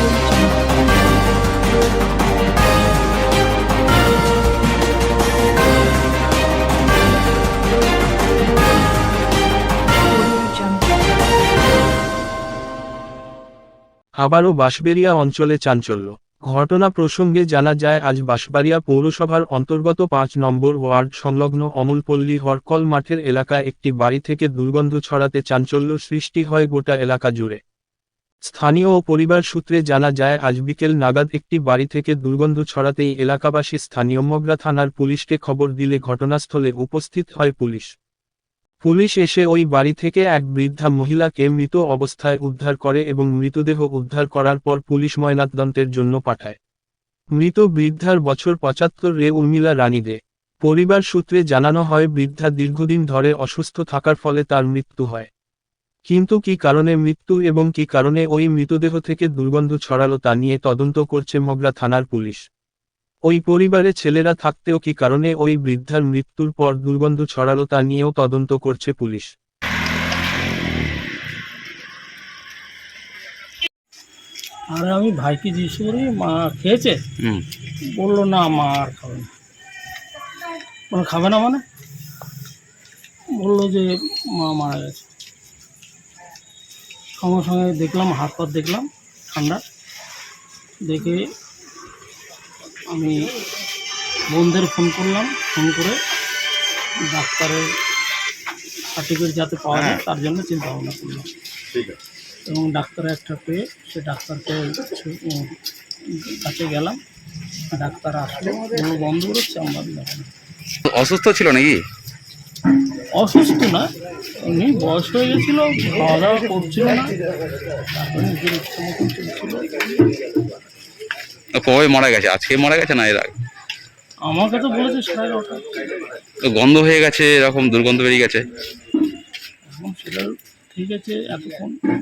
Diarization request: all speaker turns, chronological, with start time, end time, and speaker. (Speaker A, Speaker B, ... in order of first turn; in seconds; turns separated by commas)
Speaker A: 14.2-27.6, Speaker A: 28.5-37.9, Speaker A: 38.8-46.6, Speaker A: 47.4-55.3, Speaker A: 56.0-62.4, Speaker A: 63.3-69.3, Speaker B: 74.7-77.0, Speaker B: 77.9-79.3, Speaker B: 80.9-81.6, Speaker B: 83.3-85.1, Speaker B: 87.2-89.6, Speaker B: 90.8-91.3, Speaker B: 92.9-93.3, Speaker B: 94.3-96.0, Speaker B: 97.0-97.8, Speaker B: 98.9-101.3, Speaker B: 102.5-107.0, Speaker B: 107.6-110.3, Speaker C: 110.8-111.8, Speaker B: 113.1-117.2, Speaker B: 117.8-120.0, Speaker C: 121.5-123.3, Speaker B: 124.2-125.7, Speaker C: 126.5-128.4, Speaker B: 129.7-131.8